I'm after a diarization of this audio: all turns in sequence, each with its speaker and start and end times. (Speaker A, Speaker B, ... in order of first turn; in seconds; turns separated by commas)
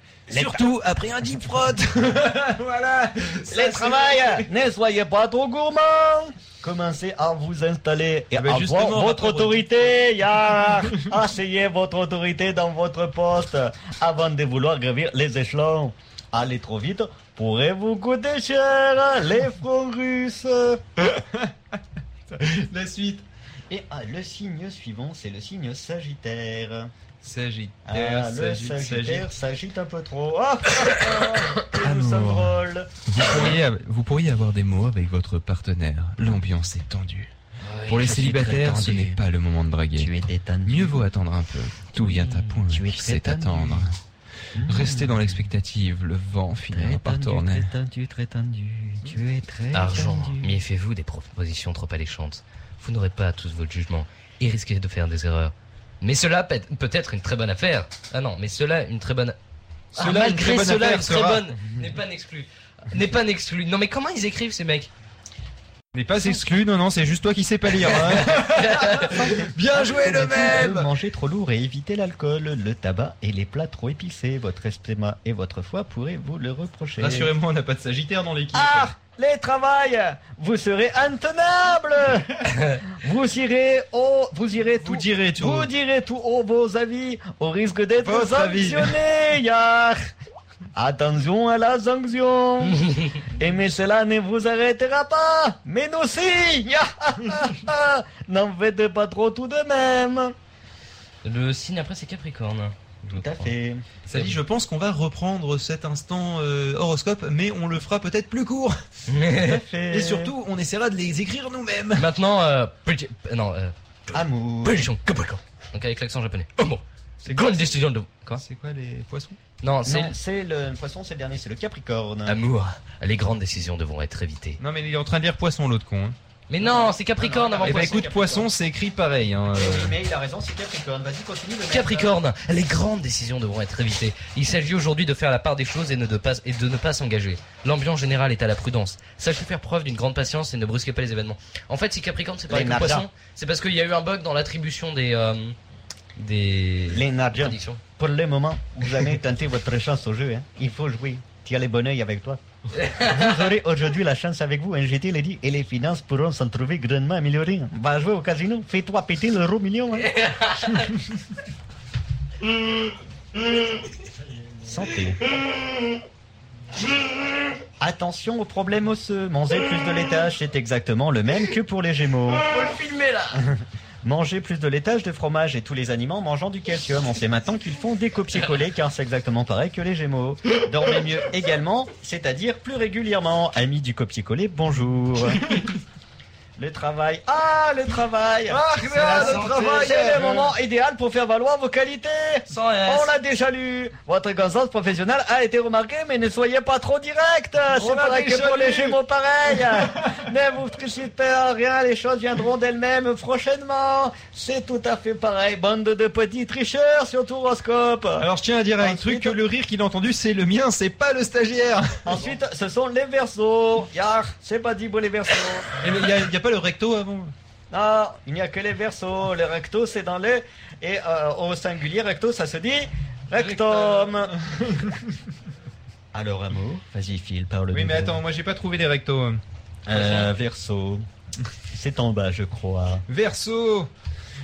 Speaker A: 0.3-0.6, Speaker B: 0.3-4.5, Speaker A: 3.5-20.8, Speaker B: 8.3-9.7, Speaker B: 21.0-21.5, Speaker B: 22.3-23.2, Speaker A: 23.7-26.9, Speaker B: 27.2-29.3, Speaker A: 27.9-33.6, Speaker B: 31.7-37.3, Speaker C: 37.6-38.2, Speaker B: 37.9-40.1, Speaker A: 38.0-39.2, Speaker A: 39.9-41.1, Speaker B: 40.6-44.0, Speaker C: 42.0-42.6, Speaker A: 42.7-43.9, Speaker A: 44.5-45.4, Speaker B: 44.6-47.7, Speaker A: 46.7-50.6, Speaker C: 49.7-59.4, Speaker B: 59.9-61.5, Speaker C: 60.0-64.9, Speaker A: 60.0-60.7, Speaker B: 65.9-70.9, Speaker C: 67.8-69.1, Speaker A: 68.2-77.3, Speaker B: 77.0-78.9, Speaker A: 78.5-90.1, Speaker C: 82.5-82.8, Speaker B: 84.8-85.7, Speaker B: 88.0-89.0, Speaker A: 90.7-92.8, Speaker C: 92.8-93.2, Speaker A: 93.3-100.3, Speaker C: 101.2-103.5, Speaker A: 103.1-103.8, Speaker C: 104.0-104.4, Speaker B: 104.1-108.8, Speaker C: 109.1-109.6, Speaker A: 109.4-110.3, Speaker B: 109.9-112.1, Speaker C: 112.0-118.4, Speaker A: 114.1-114.9, Speaker B: 117.2-117.8, Speaker B: 118.3-119.4, Speaker C: 119.6-120.2, Speaker A: 119.8-122.4, Speaker C: 122.2-124.6, Speaker B: 124.6-126.2, Speaker C: 126.5-128.1, Speaker A: 126.6-128.5, Speaker B: 127.6-130.0, Speaker A: 129.5-132.2, Speaker C: 131.7-145.6, Speaker A: 142.5-143.1, Speaker C: 146.2-147.8, Speaker A: 146.9-160.1, Speaker C: 152.7-153.4, Speaker C: 160.0-160.9, Speaker A: 164.6-165.2, Speaker A: 167.8-172.5, Speaker C: 172.4-173.4, Speaker A: 173.3-185.6, Speaker A: 186.6-209.4, Speaker B: 188.5-190.5, Speaker C: 188.8-190.2, Speaker C: 192.5-193.1, Speaker B: 197.7-199.0, Speaker B: 208.2-212.2, Speaker A: 212.0-215.7, Speaker B: 215.8-217.3, Speaker A: 217.7-224.3, Speaker B: 223.4-224.9, Speaker A: 226.1-228.2, Speaker B: 227.7-229.4, Speaker A: 229.8-231.1, Speaker C: 229.9-230.2, Speaker A: 231.7-233.0, Speaker B: 233.1-233.9